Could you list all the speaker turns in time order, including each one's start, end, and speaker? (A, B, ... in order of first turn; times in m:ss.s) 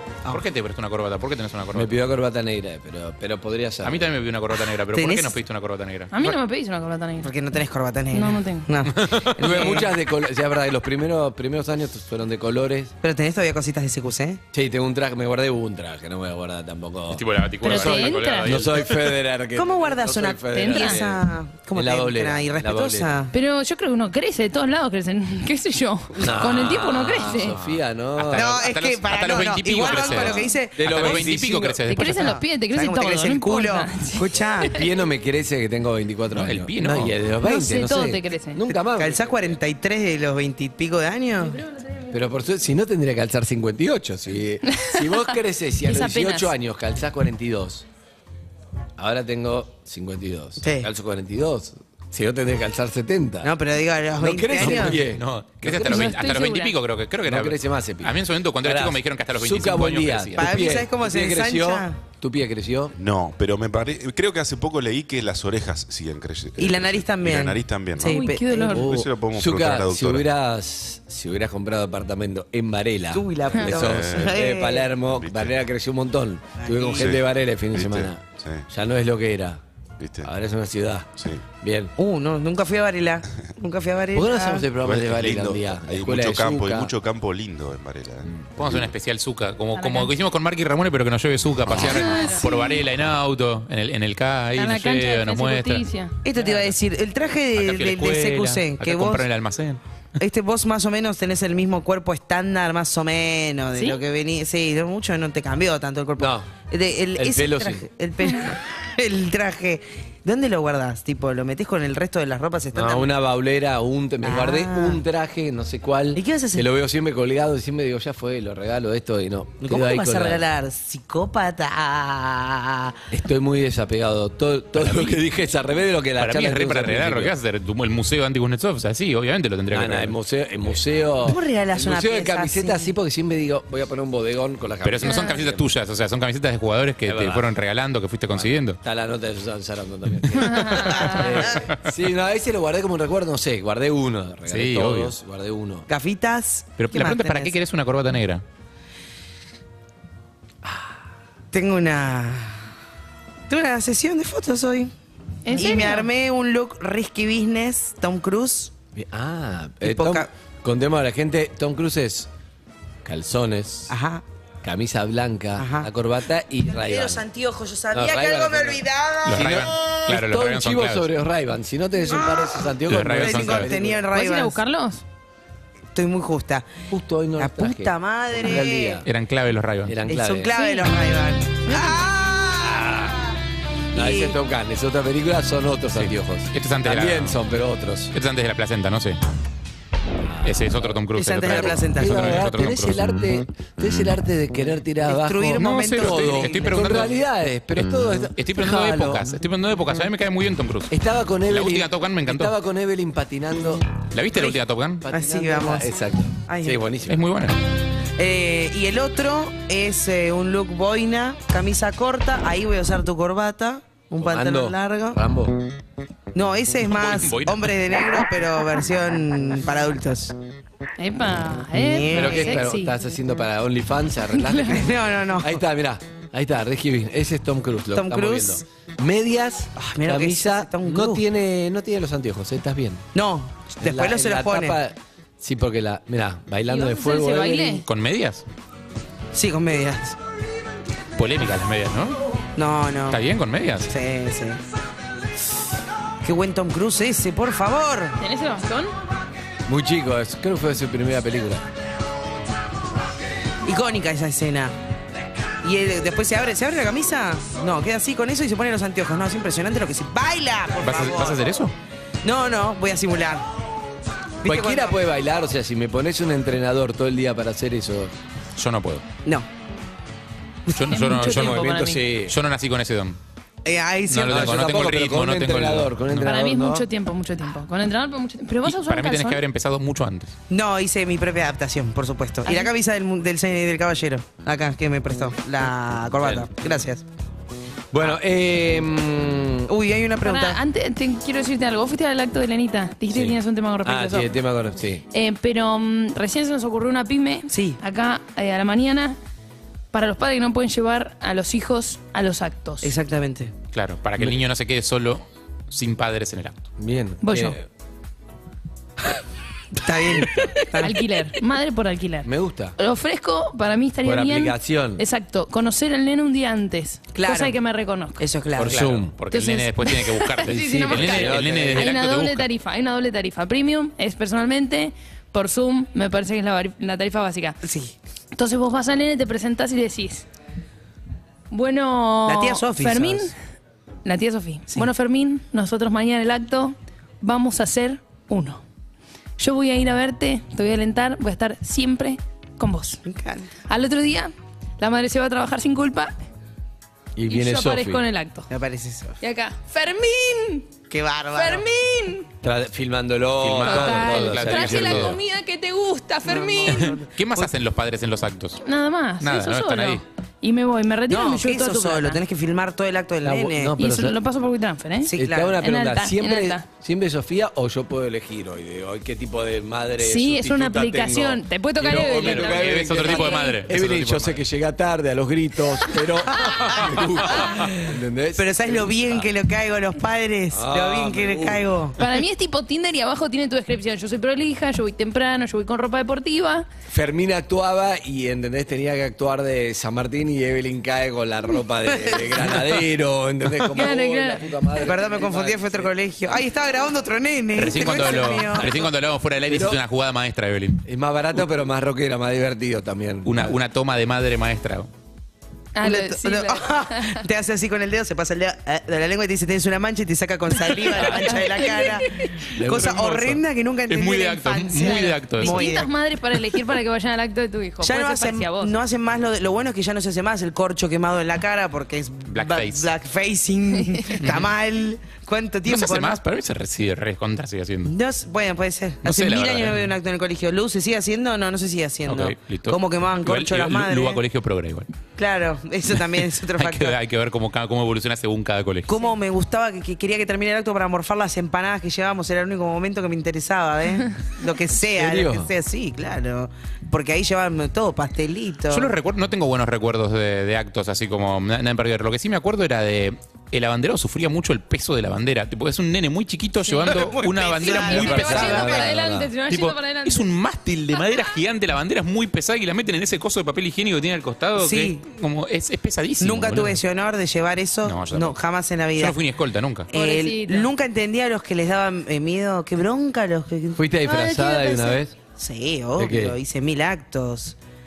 0:00.3-0:02.0 A
0:01.7-0:04.1 B
0:03.8-0:06.1 A
0:04.9-0:05.3 C
0:06.1-0:07.3 D
0:07.2-0:09.9 C
0:08.1-0:08.7 D
0:09.0-0:09.8 A
0:09.4-0:12.9 B
0:13.0-0:14.4 C
0:14.5-0:23.2 B
0:17.1-0:19.1 A
0:17.6-0:18.6 D
0:19.6-0:23.3 C
0:20.5-0:21.0 D
0:23.3-0:27.6 D
0:26.2-0:28.6 B
0:27.2-0:32.4 A
0:28.3-0:31.4 C
0:29.9-0:31.8 B
0:31.9-0:34.3 D
0:32.0-0:34.8 C
0:34.7-0:39.6 B
0:36.3-0:37.2 A
0:37.4-0:38.6 D
0:38.9-0:41.6 C
0:41.4-0:42.1 D
0:42.1-0:47.8 B
0:44.7-0:45.3 D
0:45.8-0:46.5 D
0:49.0-0:53.5 B
0:50.6-0:50.9 C
0:53.4-0:55.0 C
0:54.2-0:56.1 B
0:54.6-1:00.7 A
0:55.8-0:56.7 D
0:57.3-1:02.9 B
1:00.4-1:02.0 C
1:03.0-1:08.2 E
1:06.6-1:08.8 C
1:08.0-1:08.9 D
1:08.7-1:19.6 B
1:08.8-1:10.3 E
1:13.1-1:14.9 C
1:13.7-1:14.4 E
1:15.1-1:15.6 E
1:16.6-1:17.1 C
1:17.0-1:18.7 E
1:20.0-1:20.3 E
1:20.2-1:21.1 B
1:21.2-1:21.4 E
1:21.6-1:21.9 B
1:22.0-1:24.7 C
1:24.1-1:26.9 B
1:24.8-1:28.9 E
1:28.6-1:35.8 A
1:29.8-1:30.1 D
1:31.8-1:32.8 D
1:34.6-1:36.2 D
1:36.2-1:39.2 C
1:36.4-1:36.7 A
1:37.6-1:39.8 A
1:40.2-1:53.1 C
1:43.8-1:44.0 D
1:46.2-1:46.5 B
1:47.2-1:47.9 B
1:52.7-2:00.4 B
1:54.2-1:55.0 C
1:56.2-1:56.7 C
1:59.6-2:03.0 C
2:03.1-2:07.3 B
2:04.8-2:05.2 A
2:06.2-2:10.2 A
2:09.7-2:15.7 B
2:11.2-2:12.9 C
2:14.8-2:18.8 A
2:15.0-2:15.4 D
2:17.1-2:17.5 B
2:18.3-2:25.9 B
2:20.4-2:21.3 D
2:24.5-2:25.1 A
2:25.9-2:27.6 C
2:26.8-2:28.4 A
2:30.6-2:31.0 B
2:31.5-2:32.6 C
2:33.5-2:34.9 C
2:35.5-2:36.1 D
2:35.5-2:38.7 C
2:39.0-2:42.3 B
2:39.8-2:40.3 C
2:43.0-2:44.0 B
2:43.9-2:44.2 C
2:44.6-2:47.3 B
2:45.6-2:45.9 C
2:46.8-2:49.8 C
2:47.9-2:54.1 B
2:49.2-2:51.1 A
2:52.1-2:54.6 C
2:52.9-2:53.7 A
2:54.1-2:55.0 D
2:55.9-2:56.7 C
2:56.9-2:59.1 B
2:57.4-2:59.0 C
2:59.0-3:00.0 A
2:59.9-3:00.5 B
3:00.1-3:03.4 C
3:00.6-3:00.9 D
3:02.6-3:03.2 B
3:03.9-3:08.1 B
3:03.9-3:04.4 C
3:06.0-3:07.4 A
3:08.1-3:09.2 A
3:10.2-3:19.4 B
3:10.4-3:13.0 A
3:11.2-3:12.4 C
3:15.1-3:17.0 C
3:15.6-3:17.1 A
3:18.4-3:20.9 A
3:20.9-3:23.8 B
3:21.5-3:22.5 A
3:24.1-3:25.0 A
3:25.0-3:27.2 B
3:25.1-3:25.9 C
3:26.5-3:26.8 C
3:27.1-3:27.6 A
3:28.2-3:35.2 C
3:34.2-3:35.6 B
3:36.3-3:40.3 C
3:36.9-3:37.7 A
3:41.0-3:43.0 D
3:41.8-3:42.6 C
3:42.1-3:53.1 B
3:44.4-3:44.8 D
3:44.7-3:45.6 C
3:47.9-3:48.6 C
3:49.8-3:51.2 C
3:53.2-3:54.8 C
3:53.8-3:57.8 B
3:56.7-3:57.8 D
3:57.8-3:58.4 A
3:59.3-4:00.2 C
4:01.2-4:02.2 A
4:02.6-4:03.2 C
4:03.1-4:03.9 A
4:03.9-4:04.6 C
4:06.2-4:08.2 C
4:08.2-4:08.9 D
4:09.7-4:11.6 B
4:13.6-4:14.7 C
4:15.6-4:21.4 C
4:20.8-4:21.7 A
4:22.2-4:23.4 C
4:24.4-4:25.0 C
4:24.4-4:28.1 B
4:28.6-4:29.0 A
4:30.7-4:33.2 A
4:30.9-4:32.0 D
4:31.2-4:32.4 B
4:33.6-4:34.5 C
4:34.1-4:36.3 A
4:34.3-4:36.9 B
4:36.2-4:39.4 D
4:38.6-4:40.3 A
4:40.5-4:47.0 C
4:42.4-4:42.7 D
4:46.2-4:46.5 B
4:47.9-4:49.7 B
4:49.7-4:50.6 C
4:50.2-4:54.3 D
4:53.1-4:55.0 B
4:55.1-4:59.2 D
4:57.5-4:57.8 C
4:59.9-5:02.9 D
5:02.8-5:03.5 C
5:03.7-5:06.6 A
5:06.8-5:07.7 B
5:07.2-5:07.6 D
5:09.7-5:11.0 C
5:10.8-5:18.2 D
5:12.2-5:12.8 B
5:14.0-5:15.0 B
5:17.1-5:17.6 C
5:18.2-5:18.9 C
5:18.6-5:19.1 B
5:18.6-5:22.5 A
5:19.3-5:27.6 D
5:20.5-5:22.0 B
5:27.6-5:28.0 C
5:28.4-5:30.3 D
5:31.5-5:33.4 D
5:32.3-5:33.3 C
5:34.0-5:38.6 D
5:39.4-5:43.0 D
5:43.0-5:43.5 C
5:43.7-5:46.2 D
5:47.2-5:48.0 B
5:47.3-5:48.5 D
5:48.5-5:49.2 C
5:49.2-5:50.7 D
5:50.9-5:51.6 C
5:51.3-5:52.3 D
5:52.4-5:55.2 B
5:53.4-5:55.2 A
5:53.6-5:57.0 D
5:56.2-5:57.5 C
5:56.7-5:58.6 A
5:58.6-6:02.2 D
5:59.2-6:00.0 A
6:01.1-6:03.8 C
6:03.2-6:04.2 B
6:03.8-6:06.6 D
6:05.1-6:05.6 C
6:05.1-6:19.3 B
6:10.0-6:13.6 D
6:12.2-6:14.4 A
6:16.4-6:16.7 C
6:16.9-6:17.4 A
6:18.4-6:22.0 C
6:20.5-6:21.6 B
6:22.0-6:26.7 D
6:26.9-6:35.9 B
6:32.0-6:32.6 C
6:33.7-6:34.8 D
6:34.8-6:38.7 C
6:37.6-6:40.8 A
6:38.2-6:38.8 B
6:39.5-6:39.8 B
6:40.8-6:43.6 B
6:43.2-6:44.9 A
6:45.8-6:47.2 D
6:45.8-6:55.9 C
6:50.9-6:52.3 D
6:52.5-6:53.4 B
6:53.9-6:55.7 A
6:55.4-6:58.7 D
6:57.8-7:06.2 C
7:02.3-7:02.9 A
7:04.2-7:04.5 A
7:05.7-7:07.9 A
7:07.9-7:14.2 C
7:09.0-7:09.9 A
7:12.1-7:14.9 A
7:15.2-7:17.0 C
7:15.9-7:19.0 A
7:18.9-7:28.9 C
7:24.8-7:25.5 B
7:28.7-7:38.8 A
7:36.7-7:37.0 D
7:36.8-7:38.8 C
7:37.7-7:40.3 D
7:37.8-7:39.3 B
7:39.5-7:46.8 A
7:44.6-7:45.0 C
7:46.2-7:49.2 C
7:47.8-7:48.4 A
7:49.0-7:49.9 A
7:49.9-7:53.8 C
7:49.9-7:50.7 D
7:53.8-7:55.2 B
7:54.0-7:55.0 D
7:55.4-7:57.6 C
7:56.0-7:56.4 B